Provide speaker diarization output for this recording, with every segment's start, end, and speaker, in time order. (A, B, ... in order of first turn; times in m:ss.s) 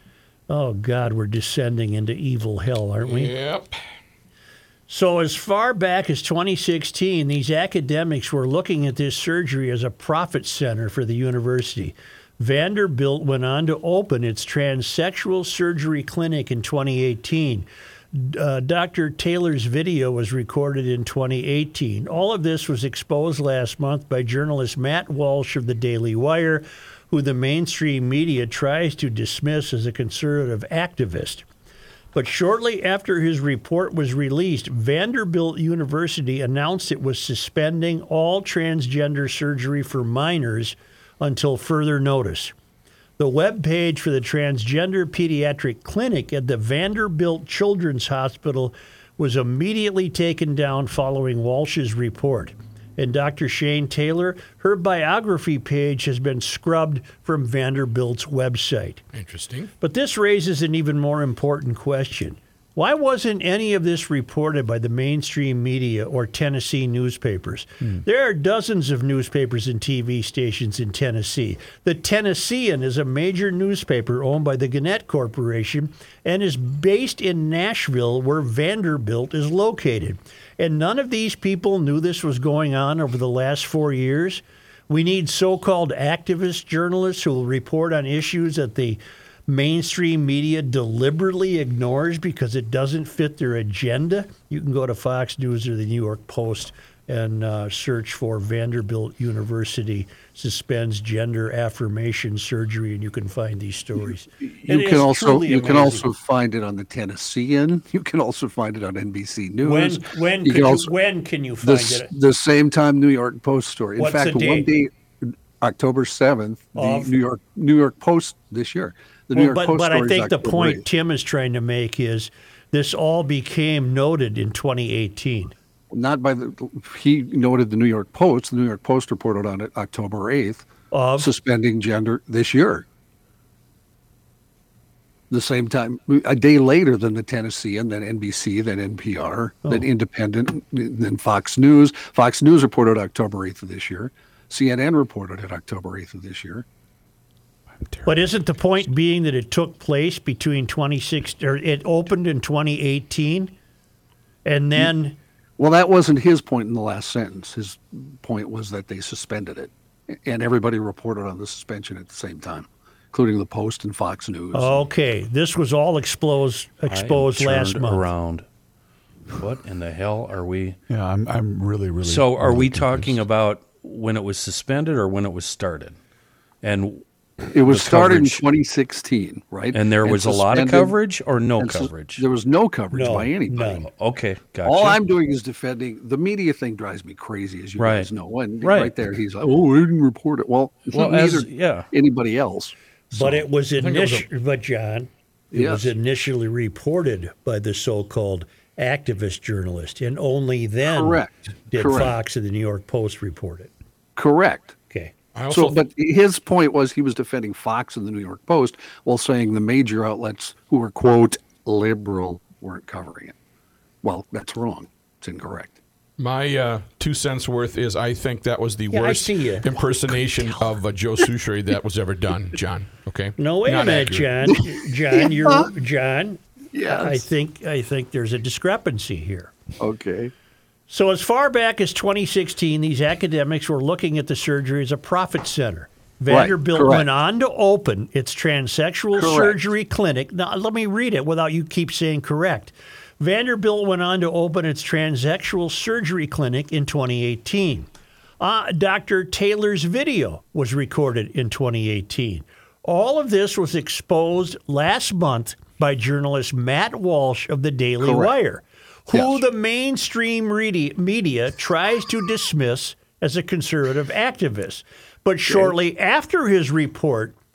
0:00.5-0:03.3 A
0:03.0-0:03.8 B
0:04.9-0:31.4 A
0:32.1-0:42.5 A
0:43.2-0:59.0 A
0:59.1-0:59.7 B
0:59.8-1:46.1 A
1:44.4-1:50.9 C
1:49.6-1:52.1 A
1:51.6-2:00.8 C
1:54.0-1:54.7 A
1:56.8-1:57.1 A
1:59.3-2:05.5 A
2:05.9-2:10.6 C
2:10.9-2:11.3 A
2:11.2-2:12.8 C
2:15.3-2:26.6 C
2:27.7-2:28.4 D
2:28.0-2:33.5 A
2:34.4-2:35.2 A
2:35.6-2:44.9 C
2:44.5-2:48.1 A
2:46.9-2:48.4 E
2:49.3-2:50.8 E
2:50.9-2:53.2 D
2:52.0-2:56.0 E
2:56.6-2:57.0 E
2:57.5-3:00.9 C
2:57.6-2:58.4 E
2:59.7-3:02.2 E
3:01.6-3:03.9 C
3:02.9-3:03.9 A
3:03.9-3:05.0 E
3:04.6-3:13.4 C
3:07.8-3:08.9 E
3:10.9-3:11.9 E
3:13.1-3:23.7 A
3:13.8-3:14.2 B
3:15.5-3:15.9 C
3:20.8-3:22.1 C
3:24.2-3:24.8 C
3:25.3-3:25.8 B
3:25.5-3:33.3 C
3:34.0-3:35.8 C
3:36.2-3:44.3 B
3:38.9-3:39.7 A
3:43.4-3:49.5 A
3:45.1-3:45.7 C
3:46.7-3:47.3 C
3:49.8-3:50.3 C
3:50.9-4:07.9 A
3:56.3-3:57.1 C
3:59.1-3:59.6 C
4:08.4-4:27.4 A
4:18.0-4:18.3 C
4:19.1-4:19.4 C
4:25.5-4:25.7 C